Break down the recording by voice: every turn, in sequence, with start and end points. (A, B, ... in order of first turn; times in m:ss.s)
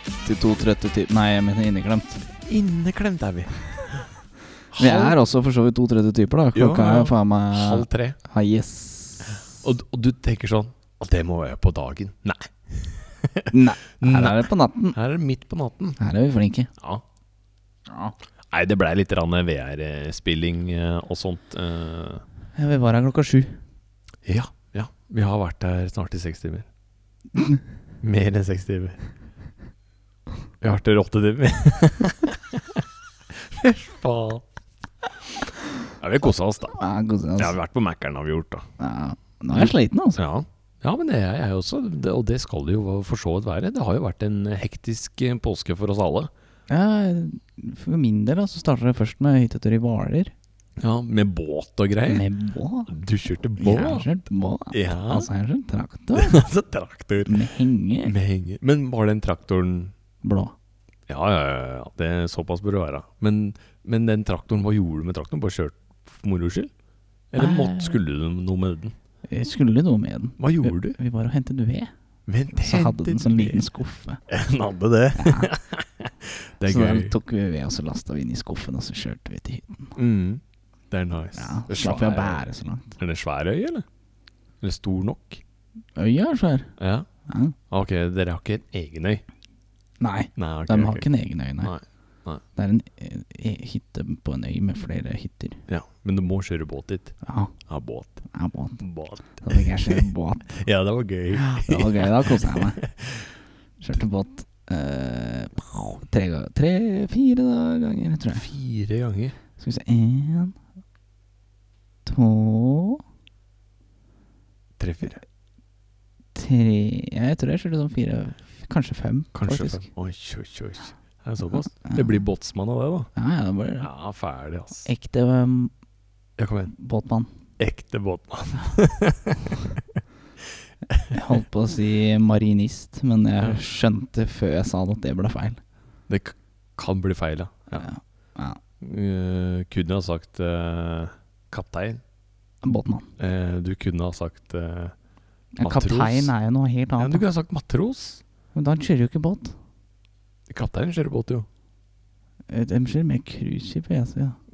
0:00.2-0:02.2 A
0:02.4-0:04.1 B
0:04.7-0:05.2 B
0:04.8-0:09.5 A
0:06.5-0:08.2 B
0:09.5-0:16.0 B
0:13.5-0:15.0 A
0:16.0-0:16.7 A
0:17.9-0:18.2 A
0:18.5-0:22.2 B
0:22.6-0:23.6 A
0:24.2-0:26.7 B
0:28.0-0:29.0 B
0:30.6-0:34.4 B
0:36.0-0:36.8 B
0:36.8-0:37.6 A
0:37.4-0:38.7 B
0:38.8-0:40.2 A
0:39.5-0:46.3 B
0:46.7-0:50.3 A
0:50.8-0:52.3 B
0:52.1-0:52.9 A
0:52.9-0:55.3 B
0:53.6-0:56.4 A
0:56.2-0:57.5 B
0:57.3-0:58.1 A
0:58.0-0:59.9 B
1:00.2-1:00.5 A
1:01.1-1:06.7 B
1:07.3-1:09.0 B
1:07.4-1:08.0 A
1:09.3-1:11.9 A
1:10.4-1:11.0 B
1:12.3-1:13.6 B
1:12.5-1:14.2 A
1:14.3-1:17.1 B
1:15.2-1:15.5 A
1:16.6-1:20.0 A
1:20.0-1:22.5 B
1:21.4-1:23.0 A
1:23.0-1:23.8 B
1:24.6-1:25.4 B
1:26.0-1:26.8 A
1:26.8-1:27.1 B
1:27.3-1:27.6 A
1:27.7-1:29.2 B
1:30.0-1:31.8 A
1:30.4-1:31.1 B
1:31.6-1:32.4 B
1:32.6-1:35.6 A
1:35.7-1:38.3 B
1:37.2-1:37.6 A
1:38.3-1:38.8 A
1:38.8-1:43.4 B
1:39.4-1:40.5 A
1:41.3-1:42.8 A
1:43.8-1:48.5 A
1:48.3-1:49.4 B
1:49.6-1:50.6 A
1:52.0-1:53.0 A
1:54.8-1:55.2 B
1:56.4-1:59.9 A
1:59.3-2:03.1 B
2:03.2-2:03.9 A
2:03.8-2:04.9 B
2:04.8-2:05.7 A
2:06.4-2:06.7 B
2:06.8-2:07.3 A
2:07.6-2:10.0 B
2:11.1-2:15.6 A
2:16.1-2:17.9 B
2:17.7-2:18.6 A
2:18.8-2:22.0 B
2:22.6-2:23.1 A
2:23.2-2:24.9 B
2:25.6-2:27.3 A
2:25.6-2:26.3 B
2:27.0-2:28.2 B
2:28.5-2:29.6 A
2:30.5-2:31.5 B
2:32.5-2:34.4 A